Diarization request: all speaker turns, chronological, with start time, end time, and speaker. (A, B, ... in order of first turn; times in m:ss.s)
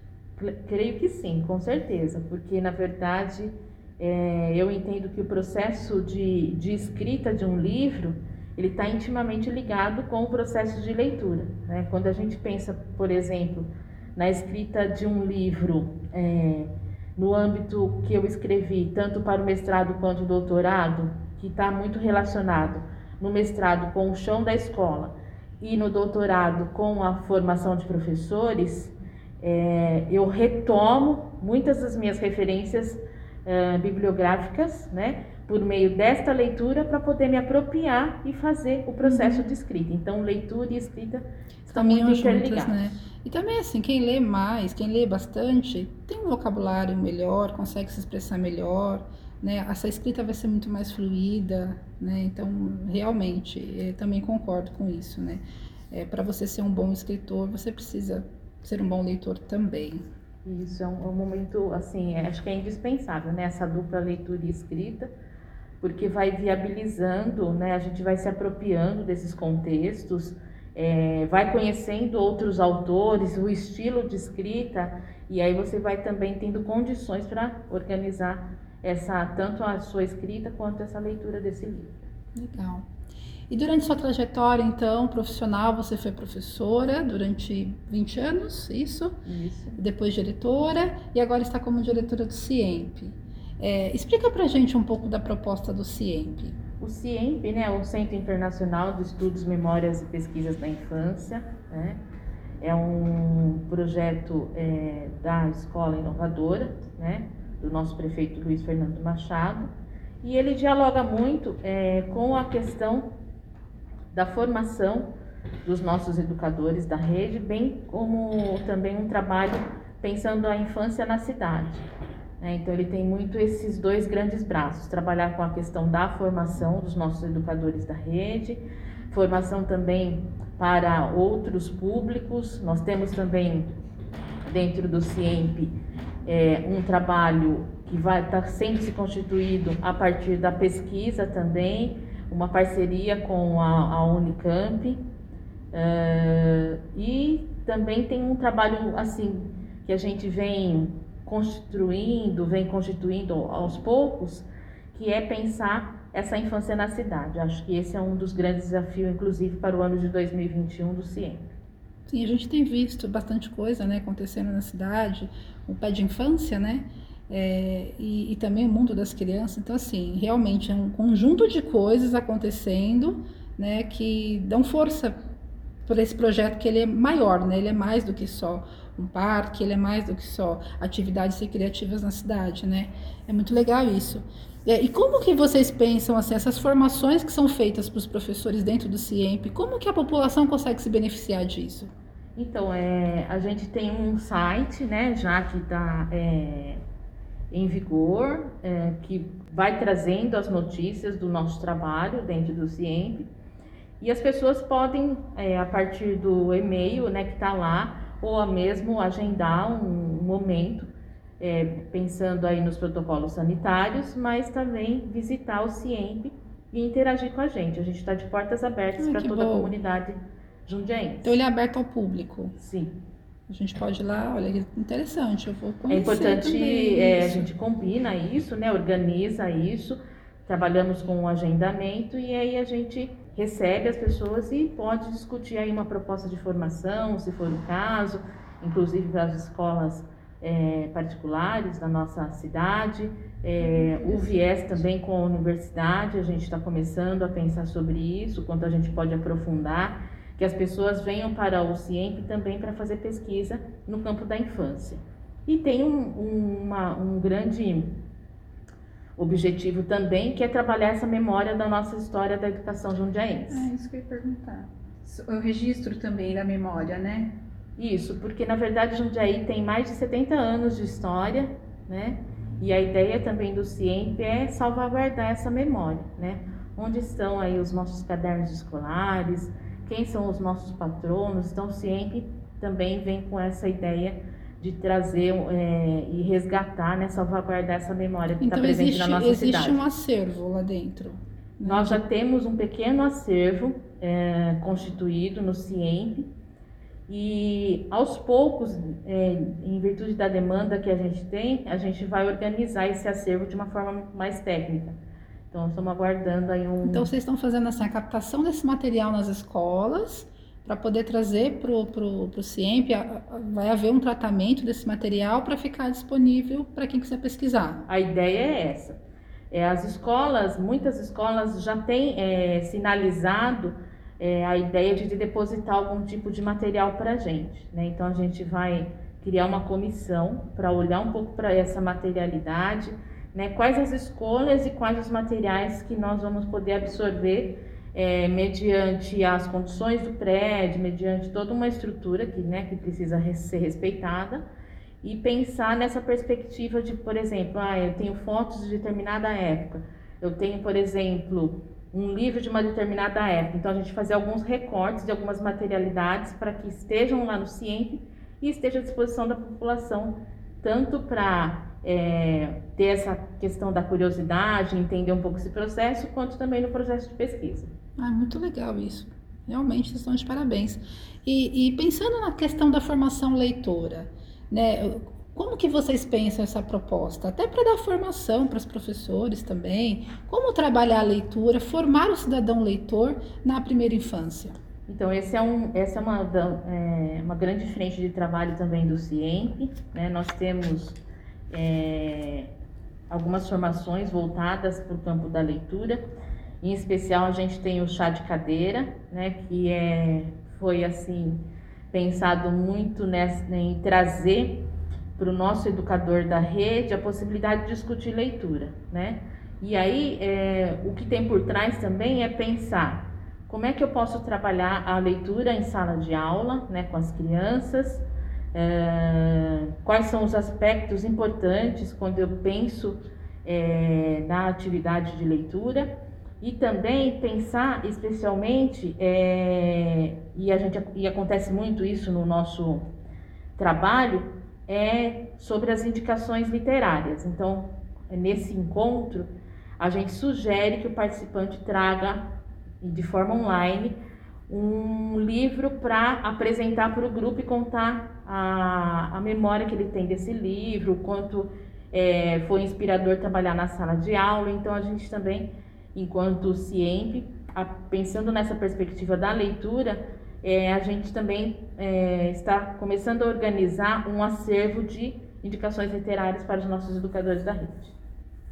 0:00.4-0:43.0 A
0:39.0-0:39.4 B
0:41.7-1:00.0 B
1:00.4-1:05.1 A
1:05.8-1:22.0 A
1:22.3-1:22.9 B
1:23.5-1:29.2 B
1:29.2-1:29.8 A
1:29.8-1:36.6 B
1:36.8-1:42.0 A
1:42.6-1:49.7 A
1:50.2-1:53.1 A
1:54.1-1:55.1 A
1:55.6-2:01.8 A
2:02.4-2:13.7 A
2:14.5-2:15.7 A
2:16.2-2:25.0 A
2:25.7-2:41.4 A
2:42.1-2:55.2 B
2:55.8-3:11.9 B
3:12.4-3:16.8 A
3:17.5-3:23.3 A
3:24.0-3:30.9 A
3:31.4-3:41.4 A
3:39.0-3:39.7 B
3:41.2-3:42.5 B
3:42.6-3:42.9 A
3:43.5-3:47.5 B
3:45.9-4:17.9 A
4:19.2-4:23.7 A
4:23.5-4:27.3 C
4:27.8-4:49.8 A
4:48.4-4:52.0 B
4:51.6-4:56.3 A
4:57.1-5:04.9 A
5:05.5-5:07.1 A
5:06.8-5:17.8 B
5:17.9-5:19.0 A
5:19.5-5:44.4 A
5:45.0-6:07.7 A
6:08.0-6:24.5 B
6:24.9-6:31.0 A
6:31.5-6:32.5 A
6:33.1-6:36.0 A
6:36.6-7:05.9 A
7:06.4-7:12.9 A
7:13.6-7:19.3 A
7:19.8-7:24.0 A
7:24.5-7:47.9 A